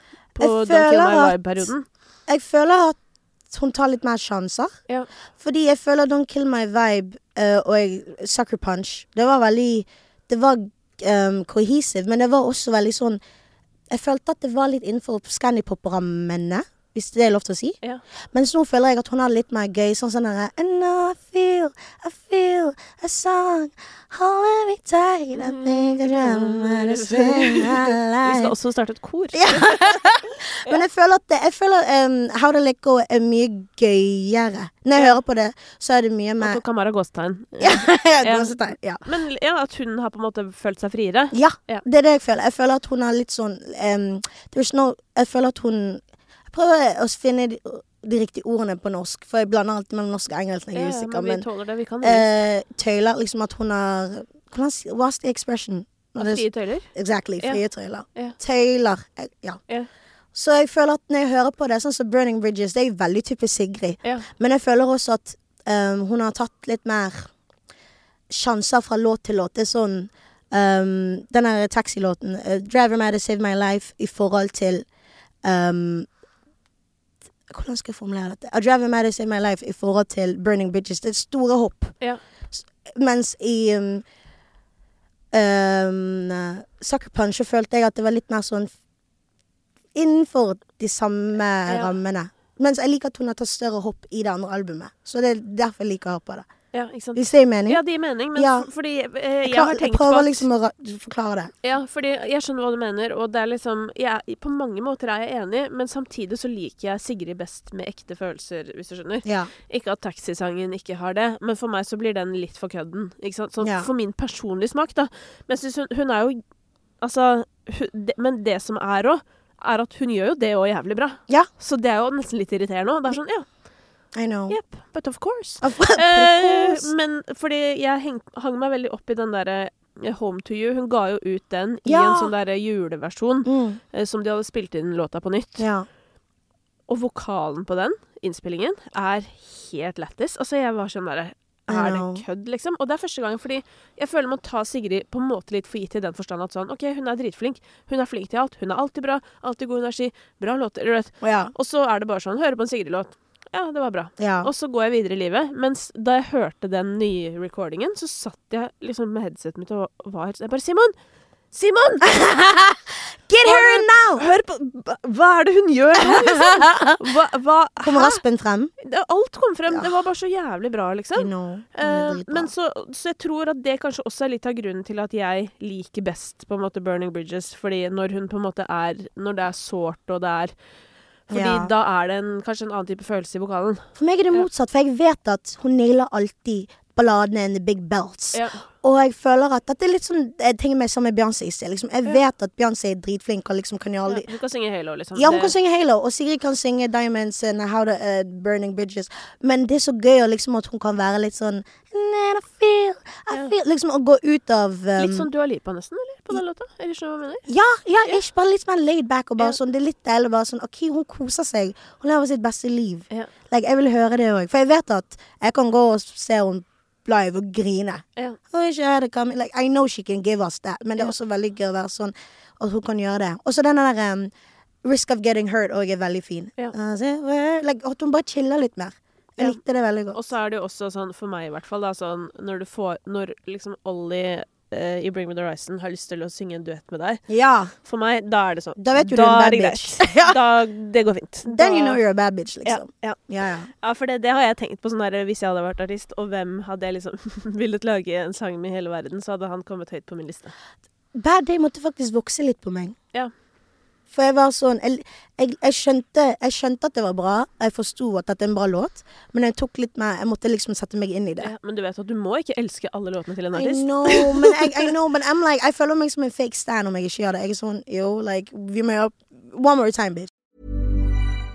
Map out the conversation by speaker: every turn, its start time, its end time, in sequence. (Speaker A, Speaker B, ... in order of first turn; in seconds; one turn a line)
Speaker A: 0.3-1.8
Speaker B: 0.4-1.7
Speaker B: 2.3-3.0
Speaker B: 3.5-4.7
Speaker B: 5.4-13.2
Speaker B: 13.9-17.8
Speaker B: 18.3-28.5
Speaker A: 25.4-30.8
Speaker B: 29.3-36.6
Speaker A: 36.4-41.8
Speaker B: 37.6-39.0
Speaker B: 41.3-51.5
Speaker A: 50.7-52.3
Speaker B: 52.0-59.6
Speaker A: 56.2-57.6
Speaker B: 60.3-67.3
Speaker B: 68.3-74.8
Speaker B: 75.4-76.1
Speaker B: 77.5-82.0
Speaker B: 82.5-84.0
Speaker B: 85.3-88.7
Speaker B: 90.0-96.5
Speaker A: 91.7-92.0
Speaker A: 96.7-100.5
Speaker B: 97.2-97.8
Speaker B: 98.3-98.7
Speaker B: 99.5-101.5
Speaker A: 101.6-116.4
Speaker B: 109.2-109.5
Speaker B: 113.6-113.9
Speaker A: 117.0-123.5
Speaker B: 124.2-124.6
Speaker A: 124.5-135.7
Speaker B: 125.6-126.9
Speaker B: 131.9-132.3
Speaker B: 133.4-133.8
Speaker B: 135.6-135.9
Speaker A: 136.9-160.9
Speaker B: 141.7-142.2
Speaker B: 151.2-151.5
Speaker B: 154.2-154.5
Speaker A: 161.5-162.6
Speaker B: 162.1-162.7
Speaker B: 163.3-164.2
Speaker A: 163.4-168.2
Speaker B: 166.0-167.0
Speaker B: 167.8-168.7
Speaker A: 168.8-180.5
Speaker B: 171.2-172.5
Speaker A: 181.3-184.4
Speaker B: 181.3-181.7
Speaker B: 184.0-194.3
Speaker A: 188.3-188.6
Speaker A: 194.1-195.6
Speaker B: 195.2-205.3
Speaker A: 205.0-207.5
Speaker B: 207.5-224.3
Speaker B: 224.8-230.2
Speaker A: 230.1-237.3
Speaker B: 237.3-237.7
Speaker A: 237.8-242.0
Speaker B: 238.8-240.4
Speaker B: 241.5-243.7
Speaker A: 242.7-243.2
Speaker A: 243.8-250.5
Speaker B: 251.2-253.0
Speaker B: 254.1-261.5
Speaker A: 261.4-264.9
Speaker B: 263.5-270.3